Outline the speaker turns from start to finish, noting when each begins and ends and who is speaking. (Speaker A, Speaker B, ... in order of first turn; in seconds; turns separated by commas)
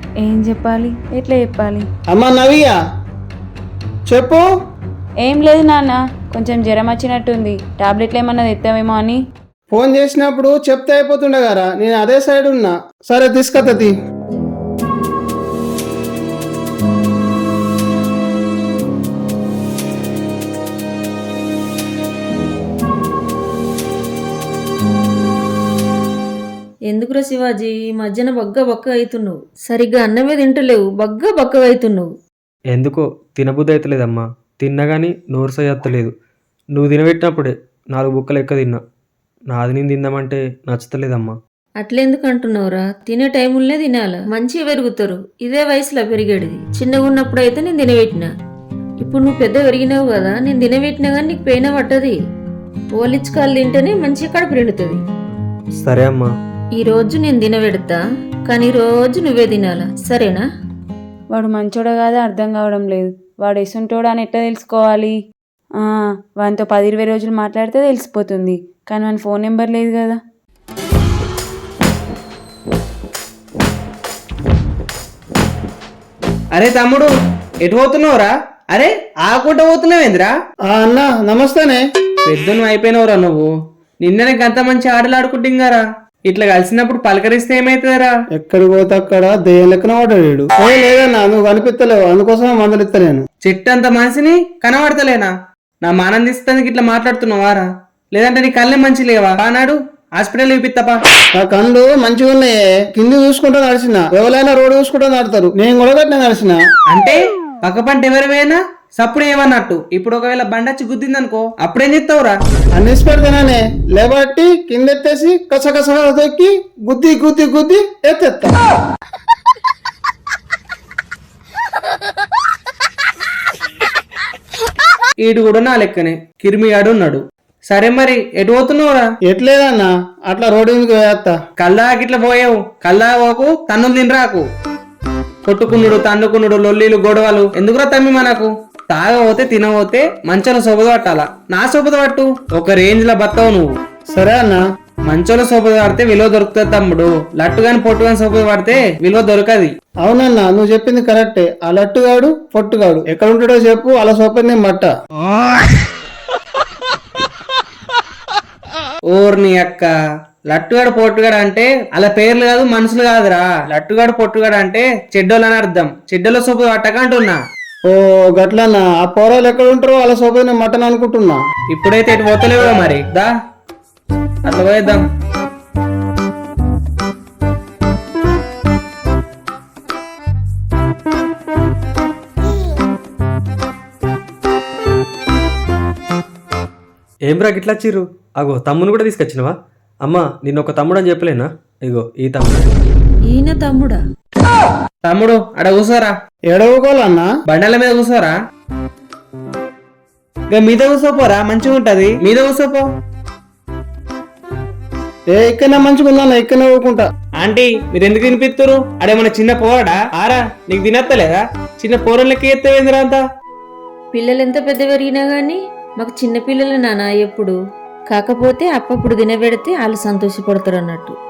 Speaker A: 0.2-1.9, Speaker B: 2.1-2.8, Speaker B: 4.1-4.5, Speaker A: 5.2-9.2, Speaker B: 9.7-13.9, Speaker C: 26.9-32.1, Speaker D: 32.7-36.1, Speaker D: 36.7-38.8, Speaker D: 39.5-41.4, Speaker C: 41.8-48.3, Speaker C: 49.0-52.2, Speaker C: 53.0-55.0, Speaker D: 55.8-56.3, Speaker C: 56.8-60.4, Speaker A: 61.3-65.2, Speaker A: 66.4-70.2, Speaker E: 76.6-77.1, Speaker E: 77.7-80.3, Speaker B: 80.7-81.8, Speaker E: 82.2-83.5, Speaker E: 84.0-88.1, Speaker B: 88.4-93.2, Speaker E: 93.4-101.0, Speaker B: 101.4-106.6, Speaker E: 106.9-112.4, Speaker B: 112.8-118.5, Speaker E: 125.2-129.1, Speaker B: 129.3-131.3, Speaker E: 131.6-134.4, Speaker E: 135.5-143.7, Speaker B: 144.1-144.6, Speaker E: 145.1-149.7, Speaker B: 150.0-154.9, Speaker E: 159.1-159.9, Speaker E: 160.5-167.4, Speaker B: 167.9-171.4, Speaker E: 171.7-173.3, Speaker E: 174.4-175.0, Speaker D: 187.2-192.7, Speaker C: 193.3-194.0, Speaker E: 195.0-196.2, Speaker B: 196.5-197.3, Speaker E: 197.5-198.4, Speaker E: 200.5-202.8, Speaker B: 205.3-207.1, Speaker E: 207.4-213.2, Speaker C: 214.1-217.6, Speaker C: 218.1-221.2